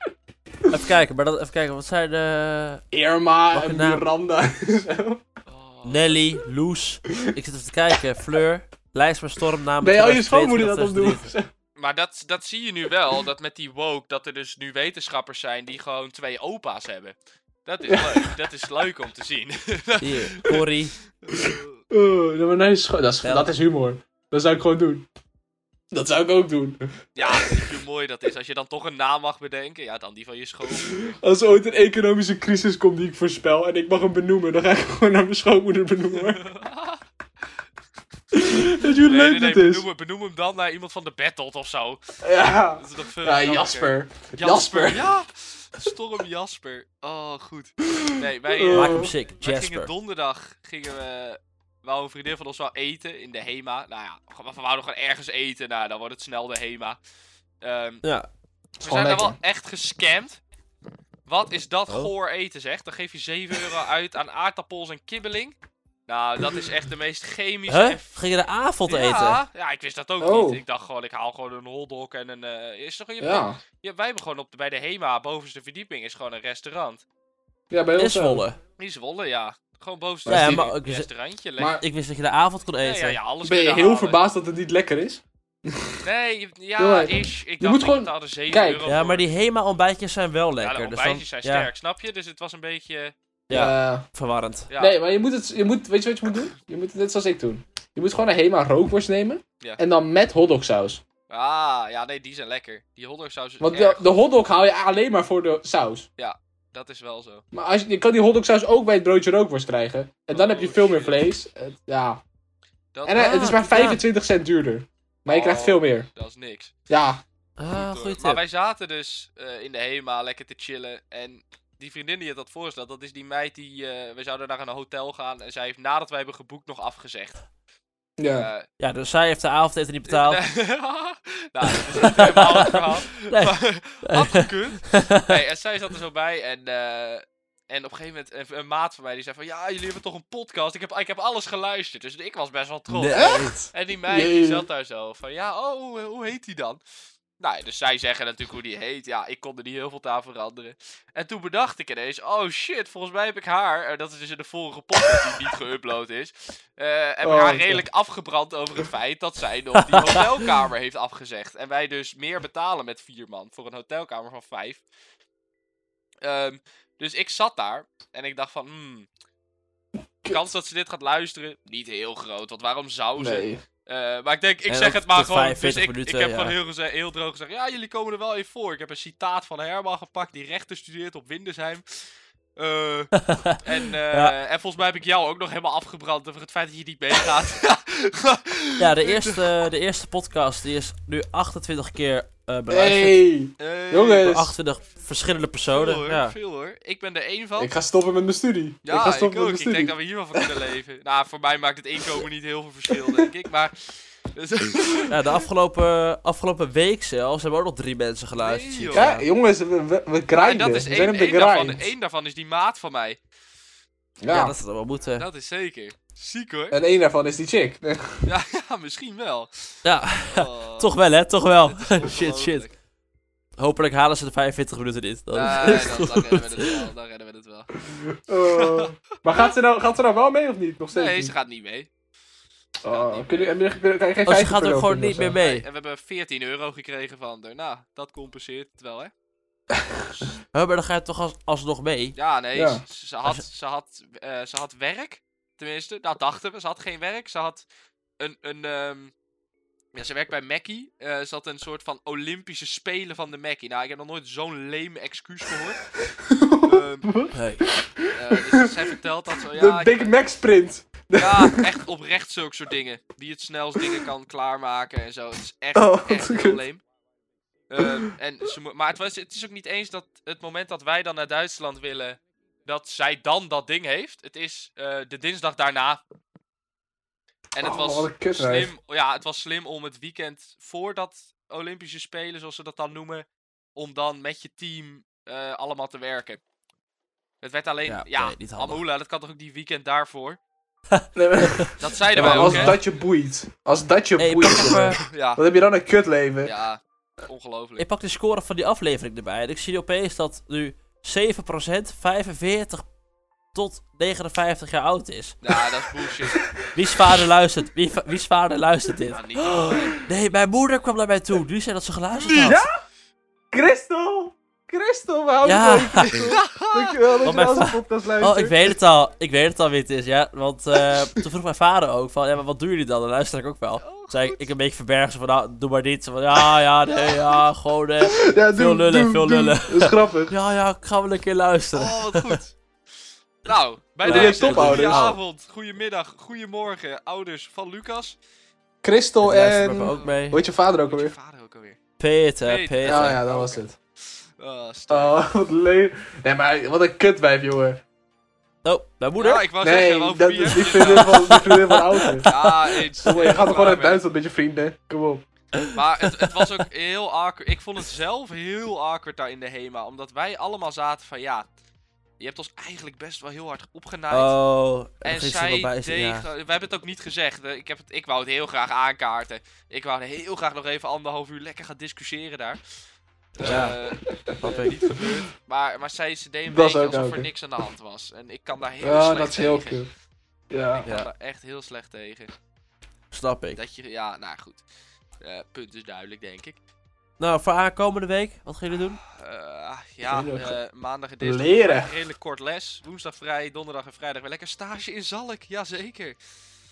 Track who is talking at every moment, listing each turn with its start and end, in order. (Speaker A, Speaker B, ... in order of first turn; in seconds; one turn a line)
Speaker A: 0.7-2.8
Speaker B: 2.9-5.2
Speaker A: 3.5-4.0
Speaker C: 5.5-6.2
Speaker A: 5.8-11.3
Speaker B: 9.8-11.5
Speaker C: 11.8-20.6
Speaker B: 18.0-18.3
Speaker A: 20.0-20.9
Speaker C: 21.2-21.8
Speaker B: 21.3-25.1
Speaker A: 23.2-23.5
Speaker B: 25.9-27.6
Speaker C: 27.1-31.1
Speaker B: 30.7-36.4
Speaker C: 36.1-37.0
Speaker B: 38.3-39.8
Speaker C: 38.7-42.0
Speaker B: 42.2-45.1
Speaker C: 42.8-57.0
Speaker B: 48.0-49.1
Speaker A: 48.7-49.9
Speaker C: 57.6-58.0
Speaker B: 58.8-59.4
Speaker C: 58.8-60.4
Speaker C: 61.2-65.5
Speaker C: 66.1-68.2
Speaker A: 67.7-69.4
Speaker C: 68.9-77.0
Speaker B: 70.2-70.6
Speaker B: 73.2-73.6
Speaker B: 77.7-78.4
Speaker A: 78.0-78.6
Speaker C: 78.8-81.8
Speaker B: 80.2-80.7
Speaker A: 80.3-81.1
Speaker B: 81.6-81.8
Speaker A: 81.8-83.2
Speaker C: 82.8-84.2
Speaker B: 83.4-85.9
Speaker C: 86.0-89.3
Speaker B: 86.8-88.8
Speaker A: 88.8-91.7
Speaker C: 90.6-93.1
Speaker A: 93.5-94.7
Speaker B: 93.5-94.0
Speaker C: 94.7-95.0
Speaker B: 94.8-101.0
Speaker C: 101.3-104.1
Speaker B: 103.6-106.1
Speaker C: 106.2-107.4
Speaker B: 107.5-112.2
Speaker C: 110.3-111.3
Speaker C: 112.9-113.3
Speaker B: 113.0-116.1
Speaker A: 113.1-114.0
Speaker C: 115.2-116.7
Speaker B: 116.9-117.2
Speaker A: 117.6-118.4
Speaker C: 117.7-127.4
Speaker B: 128.2-128.5
Speaker C: 128.4-128.7
Speaker A: 128.8-130.4
Speaker C: 130.1-146.8
Speaker A: 131.7-135.4
Speaker A: 142.9-143.6
Speaker B: 143.1-144.6
Speaker C: 147.4-164.8
Speaker B: 157.2-157.8
Speaker A: 159.8-160.3
Speaker C: 166.2-169.1
Speaker B: 170.2-170.5
Speaker C: 170.3-189.5
Speaker B: 173.2-173.6
Speaker A: 174.7-176.6
Speaker A: 183.1-184.3
Speaker A: 188.8-193.2
Speaker B: 192.7-194.5
Speaker C: 193.6-194.4
Speaker A: 194.2-196.3
Speaker C: 195.7-197.7
Speaker B: 197.6-200.4
Speaker C: 198.8-205.2
Speaker B: 202.9-203.3
Speaker A: 205.1-209.2
Speaker C: 208.4-209.1
Speaker B: 208.9-211.8
Speaker C: 210.4-213.2
Speaker B: 214.2-214.5
Speaker A: 214.3-215.3
Speaker C: 215.1-216.8
Speaker B: 216.7-218.2
Speaker C: 218.2-220.9
Speaker A: 219.8-222.7
Speaker C: 221.6-222.7
Speaker A: 223.6-226.8
Speaker C: 225.3-227.7
Speaker B: 227.9-231.3
Speaker C: 228.5-229.5
Speaker C: 230.9-231.9
Speaker B: 232.8-235.4
Speaker C: 232.8-233.6
Speaker A: 234.2-235.6
Speaker C: 235.3-239.1
Speaker A: 240.5-242.2
Speaker C: 242.2-247.7
Speaker B: 242.5-242.8
Speaker C: 248.2-249.1
Speaker C: 249.9-255.8
Speaker B: 256.2-258.7
Speaker C: 256.6-257.1
Speaker A: 257.3-257.6
Speaker C: 258.1-260.2
Speaker B: 259.5-261.7
Speaker C: 261.1-266.8
Speaker B: 265.7-266.6
Speaker C: 267.7-276.0
Speaker C: 277.5-286.4
Speaker B: 277.6-278.7
Speaker C: 287.4-290.4
Speaker A: 287.9-288.8
Speaker A: 290.9-292.8
Speaker B: 291.1-296.5
Speaker C: 291.8-292.8
Speaker A: 294.2-295.0
Speaker C: 295.0-295.4
Speaker C: 296.4-297.8
Speaker A: 297.8-302.9
Speaker A: 303.5-305.6
Speaker C: 305.4-306.5
Speaker A: 306.7-312.6
Speaker C: 309.1-310.0
Speaker C: 312.2-312.6
Speaker B: 312.4-312.8
Speaker B: 313.5-318.8
Speaker A: 315.4-316.3
Speaker C: 316.1-317.0
Speaker A: 317.2-332.4
Speaker C: 323.8-324.5
Speaker B: 328.0-330.3
Speaker C: 331.7-332.5
Speaker C: 333.4-338.1
Speaker A: 334.0-335.2
Speaker B: 334.0-335.1
Speaker B: 338.8-341.1
Speaker A: 339.2-340.4
Speaker C: 339.8-341.8
Speaker A: 342.0-343.2
Speaker C: 342.4-343.6
Speaker B: 342.8-343.7
Speaker C: 344.4-345.2
Speaker B: 344.9-347.8
Speaker A: 348.6-349.5
Speaker C: 349.2-351.4
Speaker B: 349.6-352.3
Speaker A: 350.8-352.8
Speaker C: 352.2-354.0
Speaker B: 353.0-355.2
Speaker C: 355.7-361.4
Speaker C: 362.2-364.3
Speaker A: 364.1-366.3
Speaker C: 365.0-372.6
Speaker C: 373.4-379.8
Speaker A: 373.4-373.8
Speaker B: 373.5-375.2
Speaker A: 374.4-374.8
Speaker B: 376.5-377.3
Speaker B: 378.8-379.9
Speaker B: 380.5-380.8
Speaker C: 380.7-382.3
Speaker A: 383.1-383.6
Speaker C: 383.6-384.6
Speaker C: 385.2-386.6
Speaker A: 387.2-389.0
Speaker C: 389.1-396.2
Speaker B: 390.1-390.6
Speaker B: 391.2-391.9